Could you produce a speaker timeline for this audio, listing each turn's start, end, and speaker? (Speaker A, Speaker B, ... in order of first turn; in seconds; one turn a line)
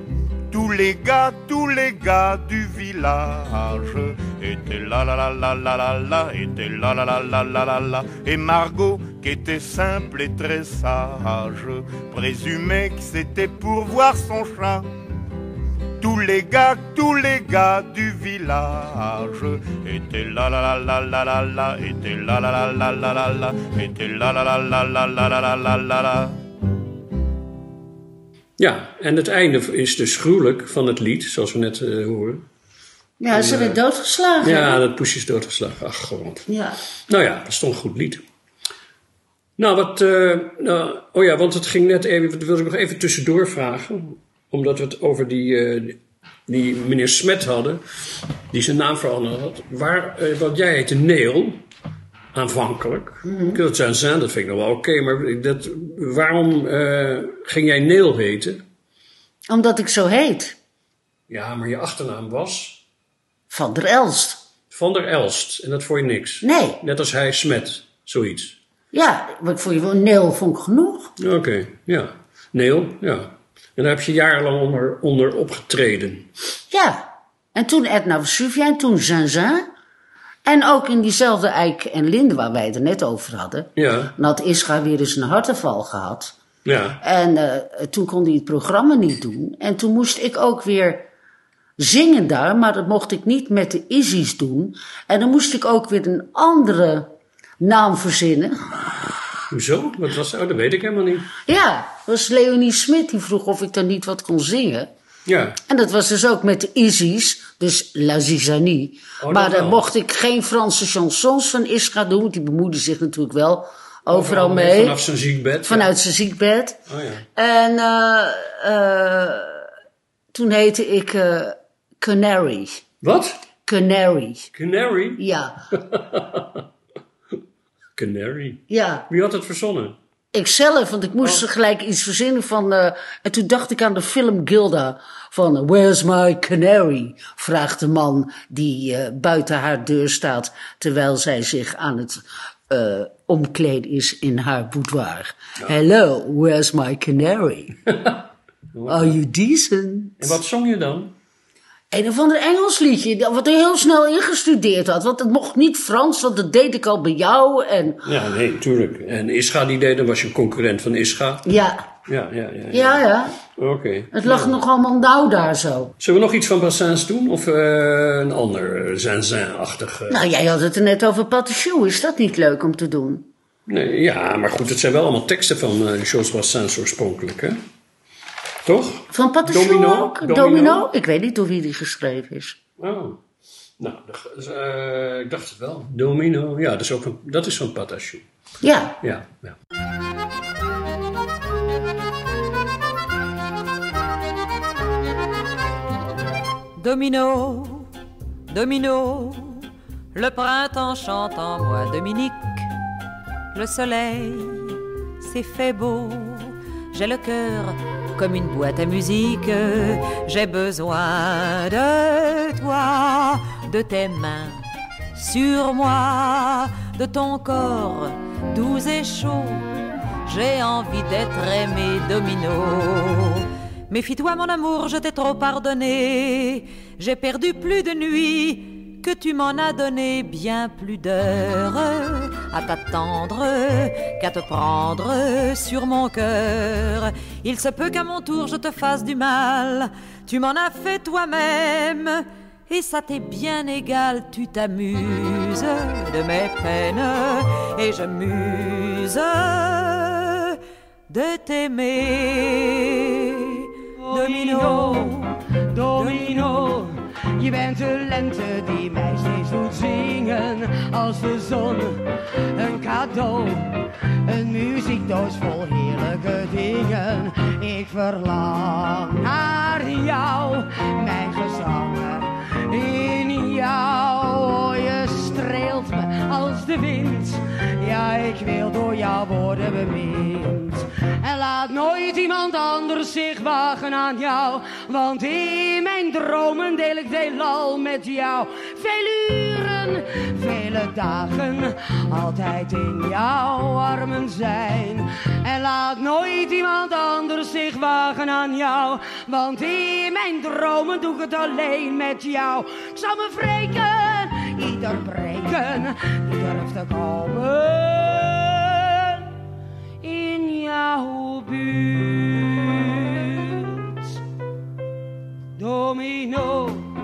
Speaker A: 0.5-14.8
Speaker A: 16.0-26.4
Speaker B: 28.6-32.4
Speaker C: 33.2-34.8
Speaker B: 33.3-33.8
Speaker B: 34.4-36.5
Speaker C: 36.5-36.8
Speaker B: 37.1-38.2
Speaker B: 39.6-47.8
Speaker B: 48.5-51.6
Speaker B: 52.3-58.6
Speaker C: 53.2-53.6
Speaker C: 59.5-60.6
Speaker B: 61.3-62.8
Speaker C: 63.5-64.4
Speaker B: 64.7-68.6
Speaker C: 66.4-66.8
Speaker C: 68.9-71.1
Speaker B: 71.2-76.3
Speaker C: 76.7-79.7
Speaker C: 80.4-86.3
Speaker B: 83.8-84.1
Speaker B: 86.7-87.0
Speaker C: 87.0-91.1
Speaker C: 91.8-98.9
Speaker B: 99.5-101.3
Speaker C: 101.5-104.9
Speaker B: 105.3-105.6
Speaker C: 105.7-115.0
Speaker B: 109.2-109.8
Speaker B: 114.1-115.9
Speaker C: 115.7-116.8
Speaker B: 116.9-117.2
Speaker C: 117.4-119.7
Speaker C: 120.3-122.8
Speaker B: 123.0-123.4
Speaker C: 123.7-124.5
Speaker B: 124.5-125.2
Speaker C: 125.2-125.6
Speaker B: 125.7-126.6
Speaker B: 128.0-130.0
Speaker C: 128.7-129.1
Speaker C: 130.3-147.8
Speaker B: 148.8-149.2
Speaker C: 148.9-150.4
Speaker B: 150.2-151.1
Speaker C: 151.9-158.0
Speaker B: 158.1-161.5
Speaker C: 161.4-161.9
Speaker B: 162.1-163.0
Speaker C: 162.7-163.4
Speaker B: 163.6-164.6
Speaker C: 164.1-165.9
Speaker B: 166.0-170.2
Speaker C: 170.1-173.3
Speaker B: 173.7-177.6
Speaker B: 178.7-180.9
Speaker C: 179.1-182.6
Speaker B: 182.8-183.2
Speaker B: 183.8-188.2
Speaker C: 188.6-189.0
Speaker B: 189.0-189.6
Speaker D: 196.8-197.9
Speaker D: 198.5-202.7
Speaker D: 203.5-219.7
Speaker D: 220.3-250.6
Speaker D: 251.1-255.3
Speaker E: 254.0-262.0
Speaker D: 256.0-256.5
Speaker E: 262.6-309.2
Speaker E: 310.0-313.9
Speaker E: 315.6-316.9